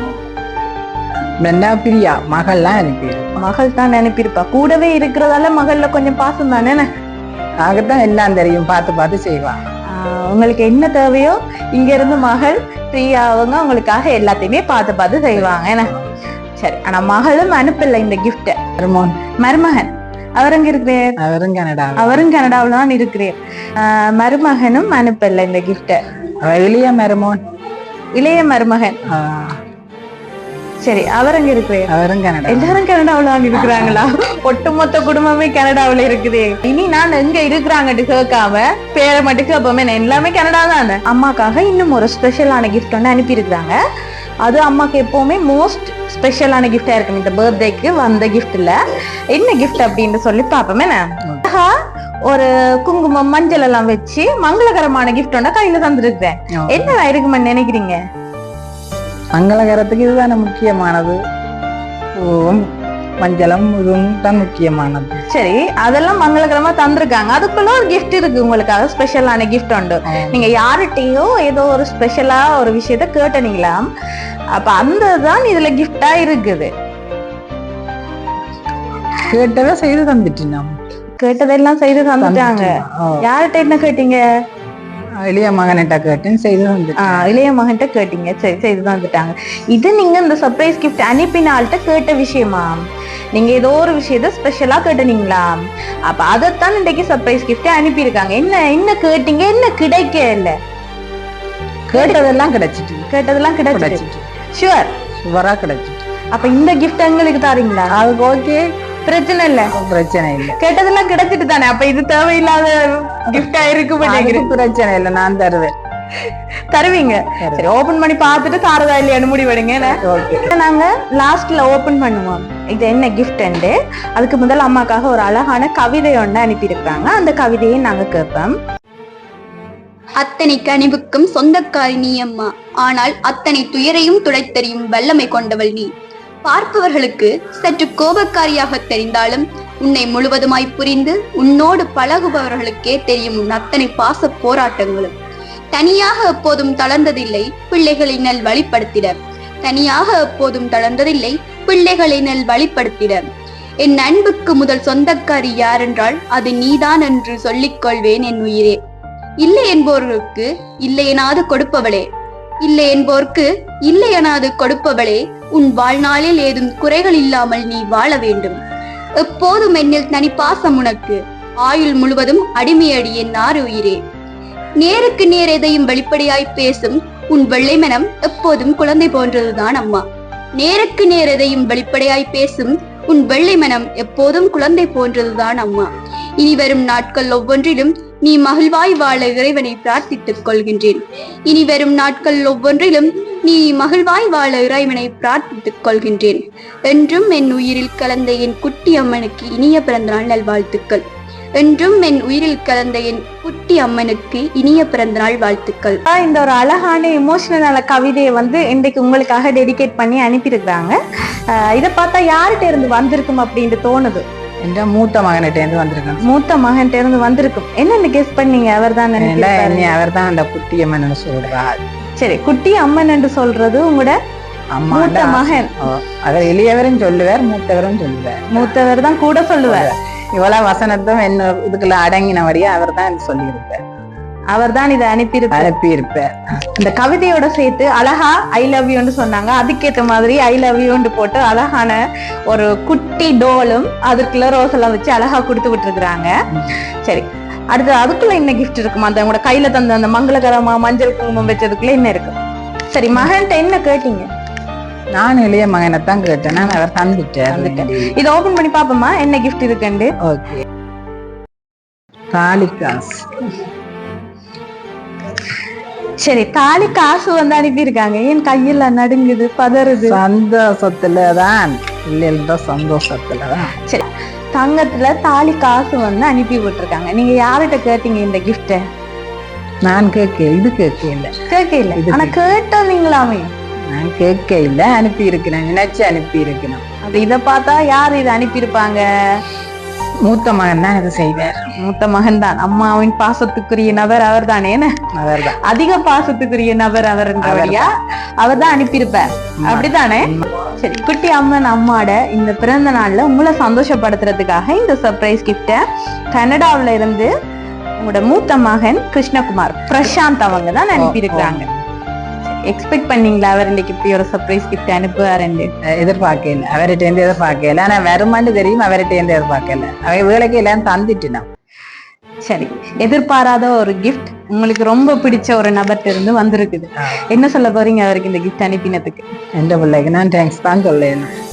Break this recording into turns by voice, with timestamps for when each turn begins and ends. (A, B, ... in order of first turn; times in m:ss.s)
0:01.4-0:03.4 A
0:03.4-0:06.9 B
0:07.6-0:09.6 A
0:09.9-0:15.9 B
0:15.3-0:16.1 A
0:16.6-0:18.6 B
0:18.8-0:19.2 A
0:19.4-0:21.1 B
0:21.2-0:22.3 A
0:22.0-0:26.0 B
0:26.4-0:27.4 A
0:28.2-0:29.0 B
0:29.1-0:29.6 A
0:30.8-0:31.9 B
0:31.9-0:32.8 A
0:32.5-0:43.8 B
0:44.4-0:48.8 B
0:49.3-0:51.8 B
0:52.3-0:58.0 B
0:56.6-0:57.0 A
0:59.4-1:01.2 A
1:02.2-1:02.7 A
1:03.2-1:05.2 A
1:05.3-1:13.8 B
1:10.1-1:10.5 A
1:14.6-1:16.7 B
1:19.2-1:20.7 A
1:21.2-1:24.2 B
1:22.2-1:23.2 A
1:25.2-1:27.3 A
1:27.0-1:32.8 B
1:33.4-1:40.6 B
1:41.9-1:43.1 A
1:41.9-1:42.2 B
1:43.1-1:44.0 B
1:43.7-1:44.3 A
1:44.6-1:44.9 B
1:45.2-1:46.0 A
1:46.3-1:47.9 B
1:47.9-1:48.7 A
1:49.0-1:49.7 B
1:49.8-1:50.6 A
1:50.6-1:54.5 B
1:54.0-1:55.7 A
1:56.2-2:08.6 B
1:57.4-1:57.7 A
2:00.0-2:00.5 A
2:10.2-2:15.9 C
2:16.4-2:25.1 C
2:25.7-2:33.3 C
2:33.8-2:38.8 C
2:39.4-2:42.1 C
2:42.6-2:48.6 C
2:49.2-2:54.0 C
2:54.8-3:00.0 C
3:00.6-3:21.0 C
3:21.6-3:26.0 C
3:26.1-3:31.0 B
3:31.5-3:34.2 B
3:34.6-3:36.2 A
3:36.2-3:39.9 B
3:39.2-3:41.8 A
3:42.2-3:44.2 B
3:44.8-3:48.4 A
3:44.9-3:45.8 B
3:48.5-3:49.9 B
3:49.7-3:53.8 A
3:54.5-3:55.7 B
3:55.5-3:56.6 A
3:56.6-4:06.3 B
4:06.5-4:06.8 A
4:07.0-4:12.4 B
4:12.9-4:14.3 B
4:15.2-4:18.2 A
4:17.5-4:20.1 B
4:20.2-4:20.6 A
4:22.3-4:23.3 A
4:26.2-4:30.2 B
4:30.0-4:33.8 A
4:33.8-4:38.8 B
4:39.8-4:41.3 A
4:41.5-4:43.5 B
4:41.9-4:42.4 A
4:43.9-4:46.8 A
4:47.1-4:49.0 B
4:50.2-4:51.6 A
4:51.8-4:54.9 B
4:55.2-4:55.6 A
4:55.5-5:07.3 B
4:57.4-4:57.9 A
4:59.6-5:00.5 A
5:08.0-5:11.7 B
5:11.0-5:11.8 A
5:12.4-5:15.7 B
5:15.9-5:21.5 A
5:22.4-5:29.2 B
5:27.0-5:27.3 A
5:29.6-5:31.3 A